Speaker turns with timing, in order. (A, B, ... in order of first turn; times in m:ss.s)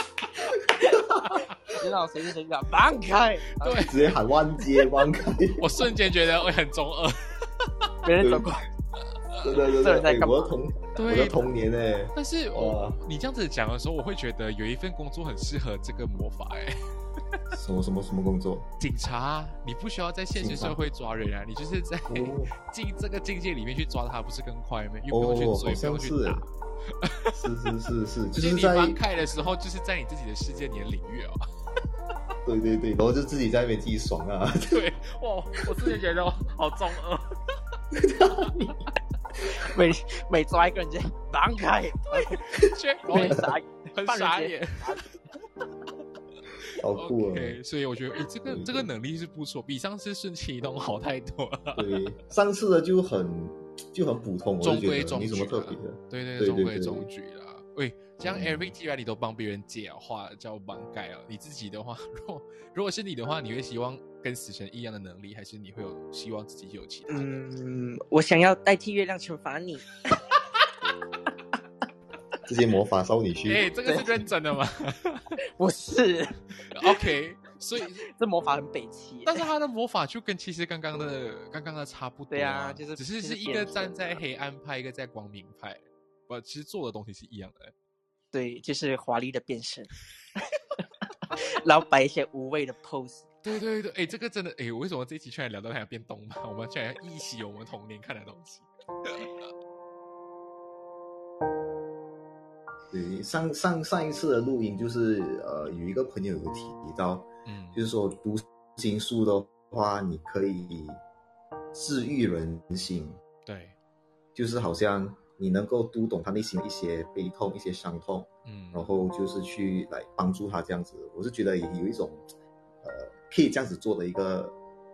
0:00.6-0:03.9 A
0:01.2-0:01.5 B
0:03.6-0:04.1 B
0:03.8-0:05.7 C
0:05.6-0:07.9 B
0:08.0-0:08.6 A
0:08.2-0:08.6 C
0:09.3-0:09.6 B
0:09.4-0:13.0 C
0:09.7-0:10.5 A
0:11.0-0:11.5 B
0:12.1-0:16.7 B
0:17.5-0:18.6 C
0:18.8-0:26.4 B
0:20.3-0:20.8 C
0:22.1-0:22.5 C
0:25.1-0:26.4 C
0:27.0-0:27.4 B
0:27.3-0:29.0 C
0:28.3-0:31.4 B
0:32.4-0:34.8 C
0:34.7-0:37.3 B
0:37.9-0:38.8 C
0:39.4-0:42.4 A
0:42.1-0:45.0 B
0:43.1-0:45.0 A
0:46.7-0:47.6 C
0:46.9-0:52.0 B
0:48.4-0:48.9 C
0:51.7-0:57.1 C
0:54.6-1:07.4 B
0:58.2-0:58.7 C
1:07.1-1:09.9 A
1:12.5-1:13.7 C
1:13.4-1:15.3 B
1:15.5-1:17.0 A
1:16.7-1:18.0 B
1:18.1-1:19.4 A
1:19.2-1:27.7 B
1:22.3-1:24.2 A
1:28.3-1:29.9 A
1:31.0-1:33.3 A
1:33.4-1:39.3 B
1:42.9-1:51.0 C
1:47.4-1:47.8 B
1:51.7-1:53.2 C
1:53.4-1:53.7 B
1:54.3-2:02.3 C
1:58.5-1:59.0 B
2:02.8-2:04.6 C